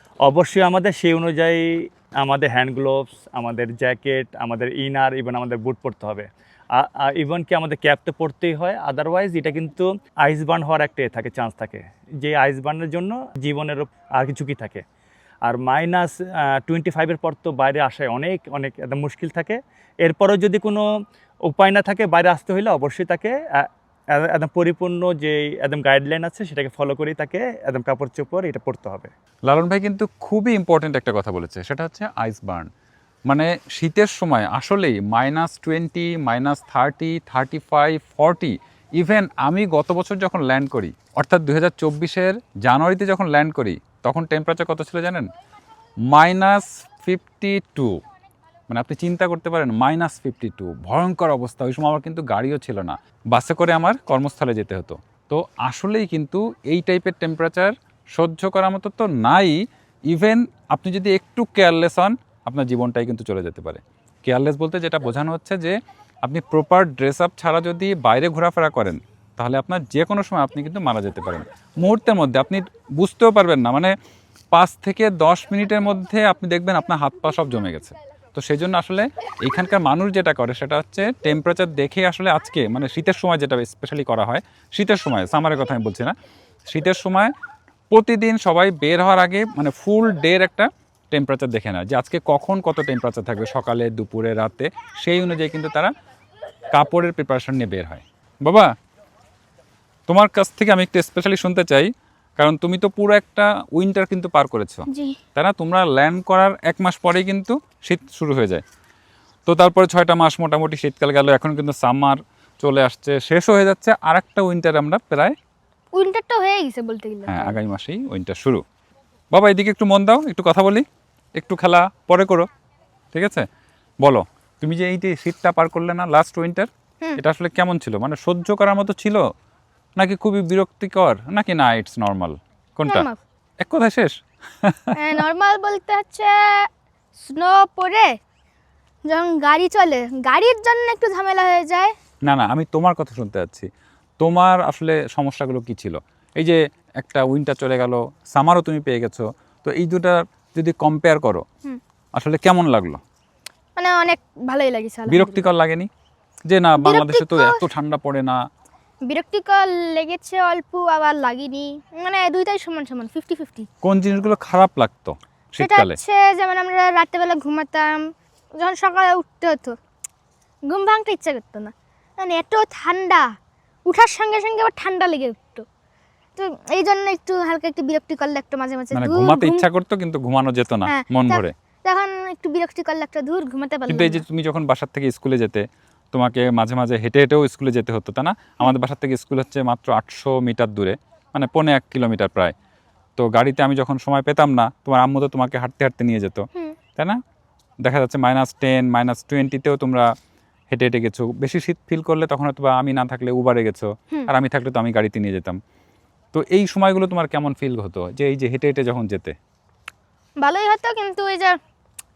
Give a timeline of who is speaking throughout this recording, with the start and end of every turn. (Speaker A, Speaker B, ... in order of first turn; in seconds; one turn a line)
Speaker A: 0.2-1.7
Speaker A: 2.2-14.8
Speaker A: 15.4-20.9
Speaker A: 21.4-29.1
Speaker B: 29.5-32.7
Speaker B: 33.3-45.3
Speaker B: 46.1-48.0
Speaker B: 48.7-73.9
Speaker B: 74.5-86.2
Speaker B: 86.7-87.3
Speaker B: 87.9-95.9
Speaker B: 96.7-98.7
Speaker B: 100.1-108.6
Speaker C: 104.9-105.2
Speaker B: 109.5-115.3
Speaker C: 115.9-117.6
Speaker B: 117.3-118.6
Speaker B: 119.3-120.8
Speaker B: 121.4-122.5
Speaker B: 123.1-123.5
Speaker B: 124.0-129.2
Speaker B: 130.0-133.1
Speaker C: 132.9-133.2
Speaker B: 133.6-134.9
Speaker C: 134.9-138.1
Speaker C: 139.1-141.9
Speaker B: 142.3-143.7
Speaker B: 144.2-151.4
Speaker B: 152.2-153.0
Speaker C: 153.8-155.4
Speaker B: 155.1-155.9
Speaker B: 156.5-158.4
Speaker C: 156.8-157.7
Speaker C: 159.1-163.7
Speaker B: 163.8-166.0
Speaker C: 165.6-168.1
Speaker C: 168.6-169.8
Speaker C: 170.7-173.3
Speaker C: 173.9-175.7
Speaker C: 176.4-179.7
Speaker B: 178.9-181.5
Speaker C: 180.8-184.2
Speaker B: 183.9-192.5
Speaker B: 193.2-196.4
Speaker B: 197.8-200.1
Speaker B: 200.7-205.6
Speaker B: 206.3-209.3
Speaker C: 210.4-211.6